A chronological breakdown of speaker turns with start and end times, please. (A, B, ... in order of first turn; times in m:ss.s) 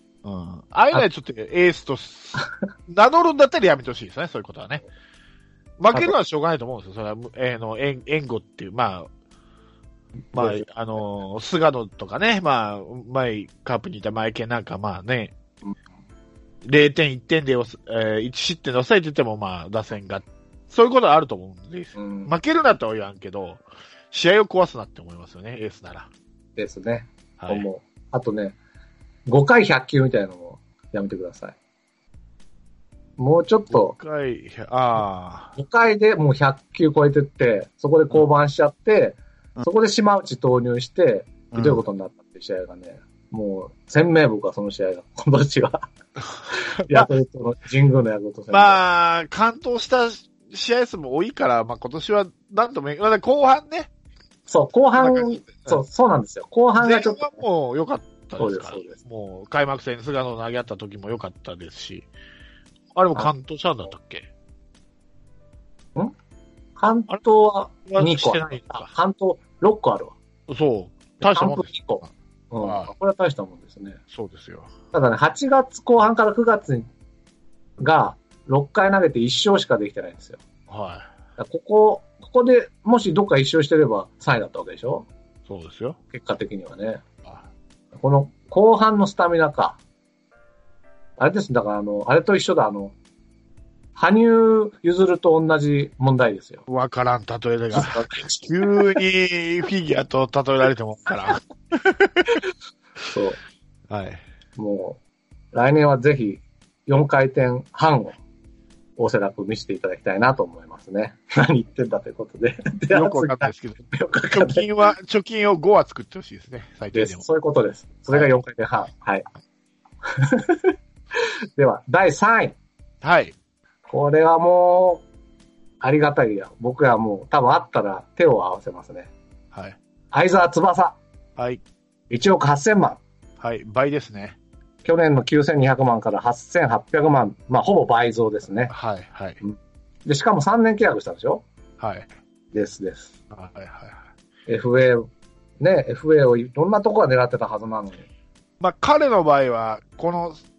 0:00.2-0:04.8 A
0:05.8-0:09.1 A
0:10.3-0:10.6 B
0:10.3-0:15.3 A
0:16.6-0:26.1 A
0:22.0-0:22.3 B
0:26.6-0:28.6 B
0:27.4-0:27.7 A
0:29.3-0:31.6 B
0:33.2-0:34.0 B
0:33.7-0:35.6 A
0:35.6-0:45.9 B
0:41.5-0:41.8 A
0:46.5-0:48.8 B
0:48.5-0:53.9 A
0:54.5-0:57.4 B
0:55.0-0:55.8 A
0:56.8-1:02.1 A
0:58.4-0:59.0 B
1:02.9-1:04.3 A
1:06.8-1:10.1 B
1:07.9-1:08.9 A
1:10.5-1:12.1 A
1:11.2-1:14.0 B
1:12.6-1:12.9 A
1:14.1-1:14.7 A
1:14.9-1:16.9 B
1:17.8-1:20.4 B
1:20.7-1:21.1 A
1:21.4-1:25.1 B
1:25.5-1:26.0 A
1:26.1-1:27.0 B
1:28.0-1:29.8 B
1:31.2-1:32.9 B
1:34.0-1:36.6 B
1:36.7-1:42.2 A
1:37.7-1:39.0 B
1:43.1-1:43.4 B
1:43.9-1:44.2 A
1:44.6-1:45.0 B
1:45.5-1:48.2 B
1:49.0-1:54.7 B
1:52.9-1:57.2 A
1:56.9-1:59.2 B
2:00.1-2:00.7 B
2:01.6-2:02.6 B
2:03.0-2:03.3 A
2:03.9-2:05.0 B
2:05.8-2:09.1 B
2:09.5-2:09.8 A
2:10.1-2:11.0 B
2:11.4-2:11.6 A
2:12.1-2:13.0 B
2:13.4-2:14.4 A
2:14.8-2:18.7 B
2:18.7-2:19.4 A
2:19.4-2:21.4 B
2:21.8-2:22.1 A
2:22.5-2:23.1 B
2:23.3-2:24.0 A
2:24.5-2:25.0 B
2:25.6-2:28.1 B
2:28.6-2:30.4 A